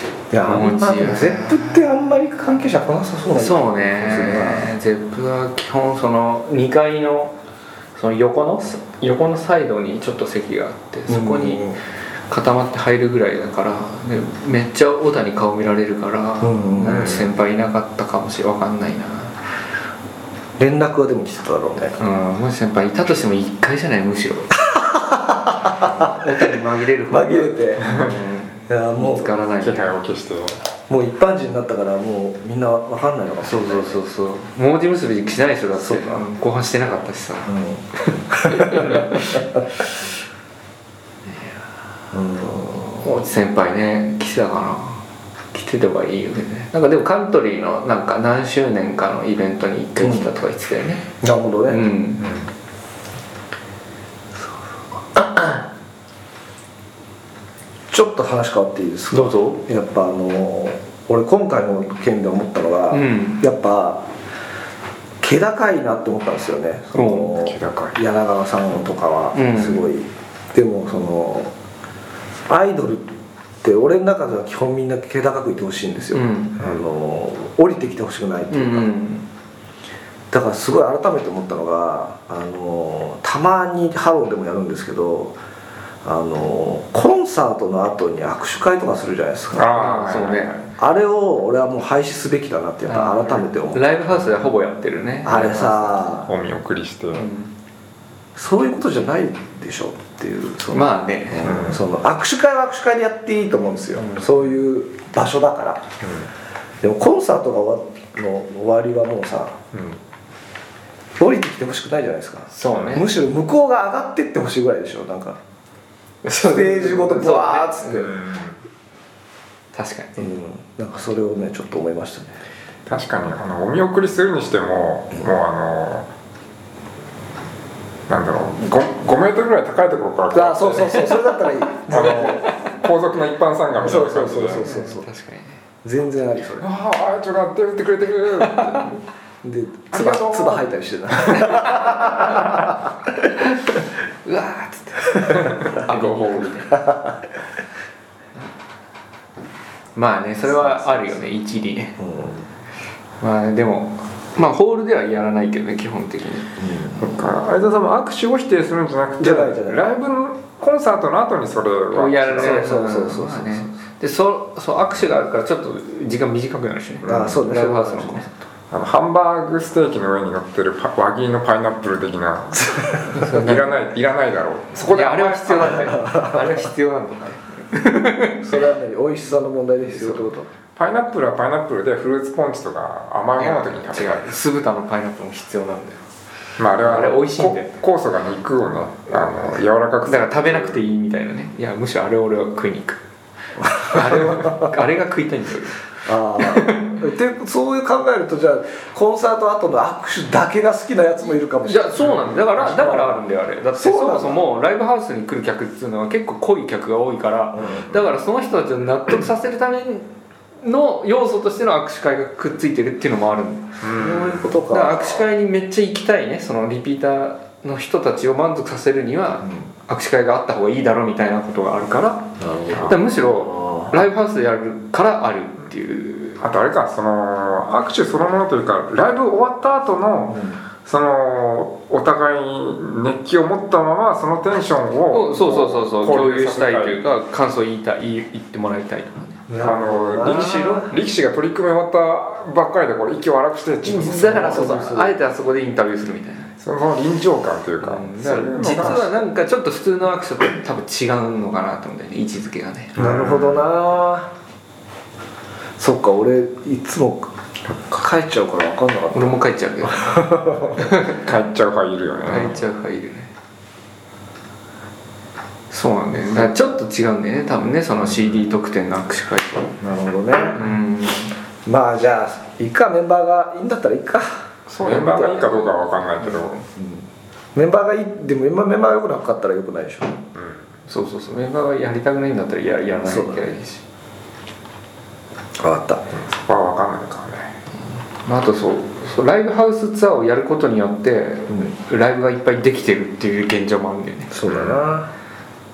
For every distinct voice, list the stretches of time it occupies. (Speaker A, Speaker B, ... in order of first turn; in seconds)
Speaker A: 0.3-4.7, 11.1-11.8, 16.4-17.3, 20.6-22.0, 24.6-26.2, 27.1-27.8, 28.7-29.3, 30.9-34.0, 35.8-36.2, 37.5-39.7, 42.1-43.1, 50.0-50.3, 51.2-51.9, 57.9-64.1, 65.2-71.5, 72.5-78.9, 80.3-85.4, 86.0-89.9, 90.8-93.9, 95.2-96.3, 98.4-105.9, 106.8-109.6, 111.2-115.4, 116.4-118.1, 120.2-122.4, 130.3-132.4, 133.8-135.1, 135.8-136.7, 139.4-143.1, 146.7-147.2, 150.5-151.1, 152.0-152.5, 156.6-157.0, 159.2-159.9, 162.3-163.7, 167.1-168.3, 175.7-176.7, 178.4-180.5, 193.8-194.7, 196.1-203.1, 203.8-204.4, 207.5-207.9, 214.0-215.3, 219.4-219.7, 222.4-223.9, 230.3-230.6, 239.5-240.9, 244.1-245.2, 253.0-254.3, 255.8-260.8, 269.8-270.6, 271.7-274.5, 276.8-280.2, 283.0-283.5, 285.6-286.1, 294.3-295.1
Speaker B: 0.4-1.8, 3.3-7.4, 8.0-11.8, 12.3-19.4, 22.0-24.6, 25.8-29.9, 33.4-39.5, 42.9-51.1, 51.7-52.3, 59.1-59.6, 62.9-63.4, 67.0-67.3, 69.3-69.9, 76.1-76.6, 78.5-79.3, 89.7-90.6, 92.9-96.1, 97.1-97.5, 100.7-101.6, 104.0-104.3, 112.5-113.1, 116.2-118.0, 119.7-120.3, 134.6-135.6, 138.4-138.8, 141.3-142.7, 144.2-146.8, 150.0-152.0, 153.2-156.6, 161.9-168.4, 173.1-173.7, 174.8-178.6, 183.4-186.0, 186.8-187.8, 190.1-193.0, 193.7-195.8, 196.4-197.0, 201.6-210.1, 210.6-213.8, 214.6-226.4, 235.1-239.5, 240.2-240.9, 243.8-246.5, 247.8-253.0, 259.1-260.2, 260.8-261.2, 262.3-263.3, 265.7-269.8, 270.5-271.3, 274.7-276.6, 280.9-283.8, 288.2-294.4
Speaker C: 27.8-28.1, 29.6-30.6, 52.2-52.5, 67.4-68.0, 89.5-90.6, 96.3-97.3, 101.4-101.8, 109.7-110.0, 112.7-113.0, 117.9-118.6, 122.9-126.1, 128.1-131.2, 131.9-134.7, 136.6-138.9, 139.9-141.6, 145.4-146.5, 157.0-162.7, 167.0-167.4, 168.7-175.9, 180.8-184.4, 186.6-190.8, 213.8-214.5, 222.7-223.0, 226.4-237.0, 239.6-244.9, 246.6-249.2, 253.0-253.7, 260.7-262.6, 274.8-276.6, 280.4-280.7, 286.1-287.5, 294.4-294.9